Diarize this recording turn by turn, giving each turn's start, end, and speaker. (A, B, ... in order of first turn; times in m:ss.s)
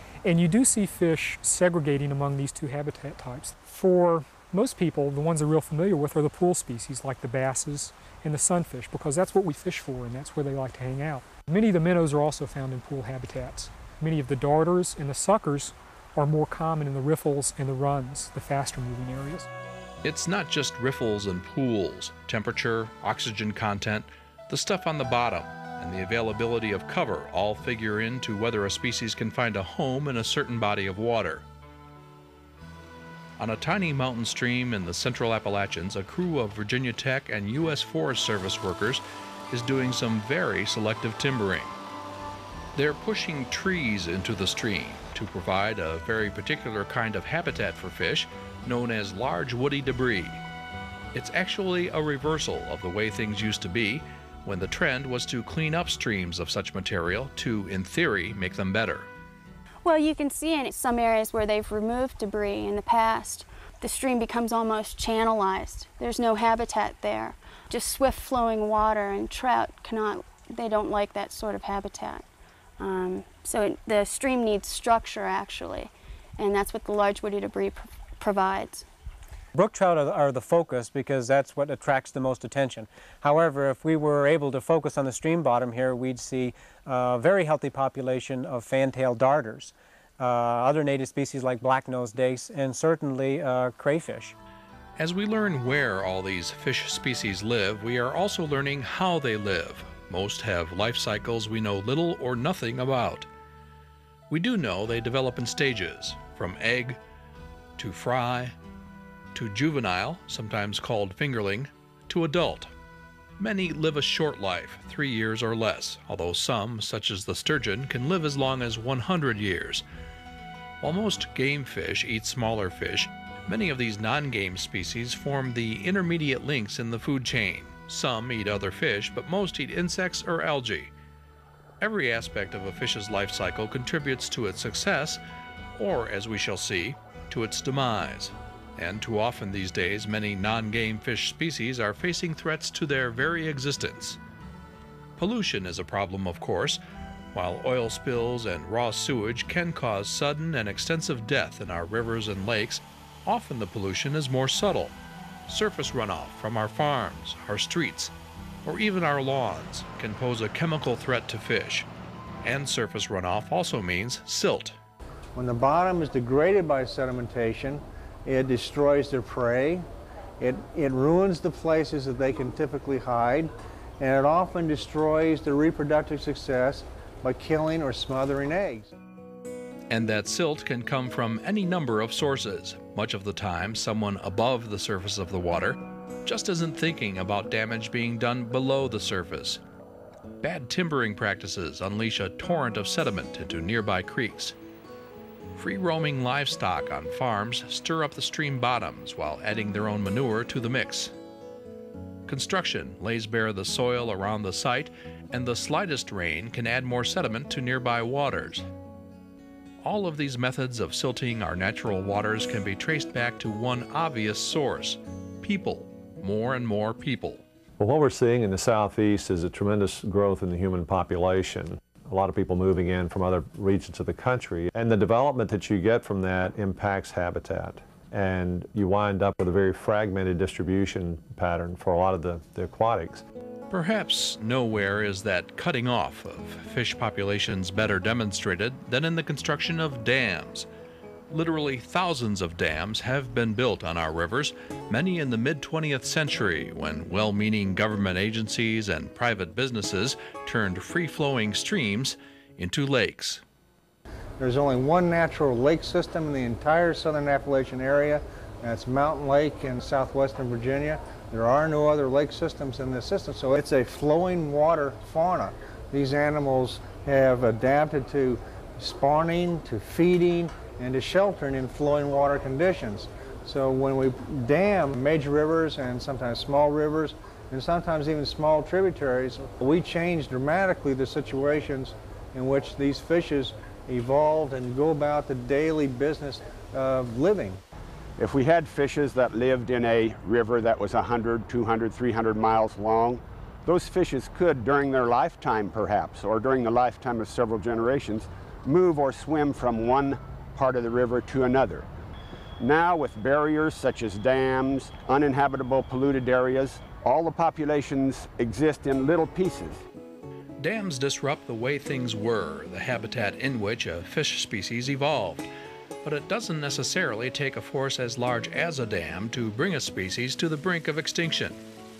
0:00.2-0:19.5 A
0:20.0-0:31.5 B
0:33.4-0:41.8 B
0:42.7-0:50.4 B
0:51.1-0:59.1 B
0:59.8-1:12.2 C
1:12.8-1:18.8 C
1:19.6-1:34.3 D
1:35.0-1:43.3 B
1:44.3-1:47.0 B
1:47.8-1:48.5 B
1:49.3-1:52.7 B
1:53.4-1:59.8 B
2:00.8-2:10.9 B
2:11.8-2:15.2 B
2:15.8-2:24.2 B
2:25.2-2:26.8 B
2:27.3-2:34.9 B
2:35.5-2:38.1 B
2:38.6-2:41.9 B
2:42.4-2:44.8 B
2:45.3-2:49.8 E
2:50.4-2:58.9 E
2:59.9-3:09.6 B
3:10.4-3:14.6 B
3:15.5-3:21.1 B
3:22.2-3:28.7 B
3:29.8-3:37.4 B
3:37.8-3:53.2 F
3:53.7-4:00.7 B
4:01.3-4:13.4 B
4:14.4-4:47.6 E
4:48.2-5:01.9 G
5:02.6-5:09.8 G
5:10.6-5:15.5 B
5:16.0-5:21.6 B